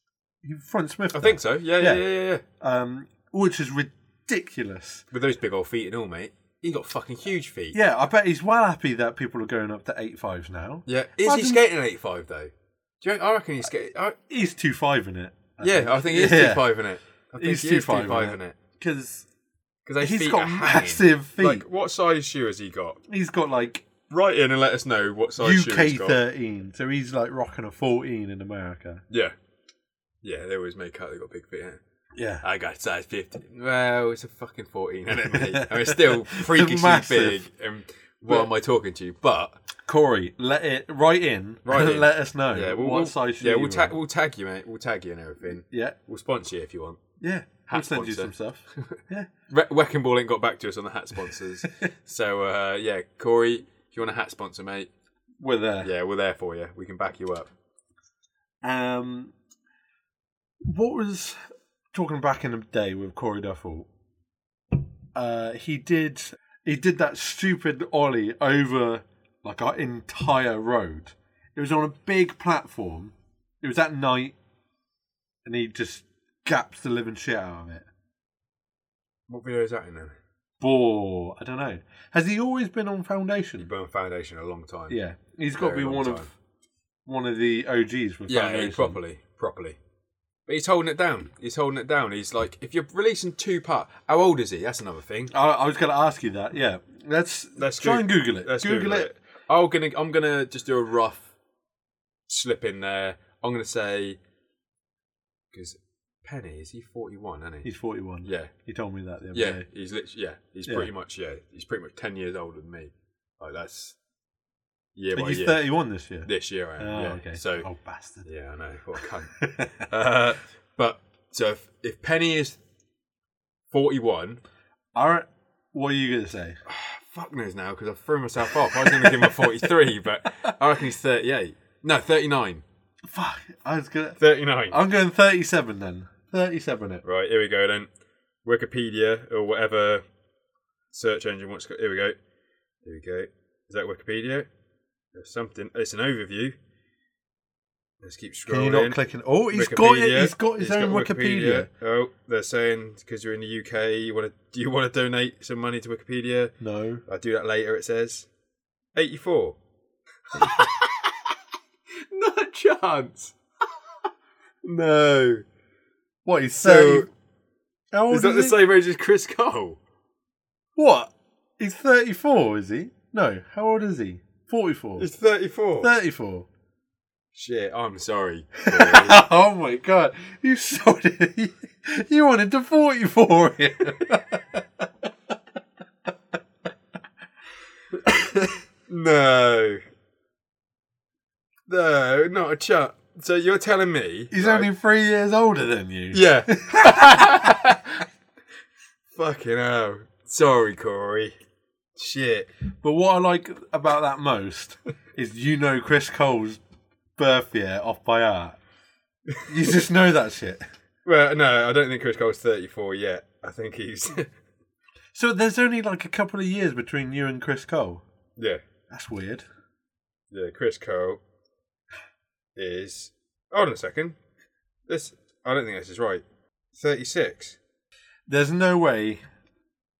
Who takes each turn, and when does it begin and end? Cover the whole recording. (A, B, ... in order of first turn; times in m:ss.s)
0:00.4-0:02.0 A
0:01.1-0:02.4 B
0:02.6-0:05.0 A
0:05.1-0:07.8 B
0:07.7-0:11.6 A
0:10.8-0:14.2 B
0:14.3-0:16.7 A
0:15.6-0:18.5 B
0:17.4-0:19.3 A
0:19.8-0:23.0 B
0:20.0-0:21.6 A
0:23.1-0:23.9 A
0:24.1-0:26.2 B
0:25.4-0:29.0 A
0:30.2-0:31.8 B
0:32.2-0:32.4 A
0:32.4-0:39.6 B
0:35.2-0:37.4 A
0:39.8-0:43.9 A
0:41.6-0:47.0 B
0:45.7-0:46.0 A
0:47.2-0:49.3 A
0:47.7-0:54.9 B
0:55.4-0:55.9 A
0:55.8-0:57.5 B
0:58.6-0:59.3 A
1:00.6-1:01.4 A
1:01.9-1:03.9 A
1:05.1-1:14.4 A
1:15.4-1:17.9 A
1:19.3-1:20.1 B
1:20.6-1:23.7 A
1:23.6-1:25.0 B
1:24.9-1:26.3 A
1:25.6-1:26.3 B
1:27.0-1:29.0 A
1:28.3-1:29.8 B
1:30.5-1:35.3 B
1:35.3-1:39.1 A
1:37.6-1:41.3 B
1:42.3-1:44.2 B
1:45.5-1:47.7 B
1:47.6-1:49.6 A
1:48.2-1:48.5 B
1:49.3-1:54.0 B
1:55.0-1:55.6 B
1:55.1-1:58.2 A
1:56.2-1:57.7 B
1:58.2-2:02.6 B
1:59.4-1:59.8 A
2:03.7-2:04.4 B
2:04.9-2:06.6 A
2:06.6-2:12.6 B
2:08.5-2:09.7 A
2:13.0-2:17.0 A
2:14.2-2:14.8 B
2:17.0-2:17.9 B
2:18.4-2:20.0 B
2:20.9-2:22.2 B
2:22.8-2:24.5 B
2:25.1-2:26.5 B
2:28.0-2:29.0 B
2:28.5-2:31.7 A
2:29.5-2:36.5 B
2:36.6-2:37.0 A
2:37.1-2:38.3 B
2:38.9-2:39.6 B
2:40.3-2:41.1 B
2:42.1-2:43.4 B
2:44.6-2:45.4 B
2:46.2-2:47.1 A
2:46.6-2:47.1 B
2:47.9-2:48.6 A
2:48.1-2:49.8 B
2:50.8-2:55.0 A
2:55.0-2:55.9 B
2:55.8-2:56.5 A
2:57.3-2:59.2 B
2:58.7-3:05.1 A
3:07.9-3:08.6 A
3:08.9-3:09.8 B
3:11.7-3:14.7 B
3:14.3-3:17.8 A
3:16.1-3:17.8 B
3:19.1-3:21.3 B
3:22.0-3:22.5 B
3:22.8-3:26.6 A
3:27.2-3:28.6 A
3:29.5-3:30.6 A
3:31.0-3:34.3 B
3:35.1-3:38.0 A
3:38.9-3:39.4 A
3:40.3-3:41.2 B
3:42.6-3:44.2 B
3:44.9-3:46.2 B
3:46.7-3:47.6 B
3:48.3-3:49.2 A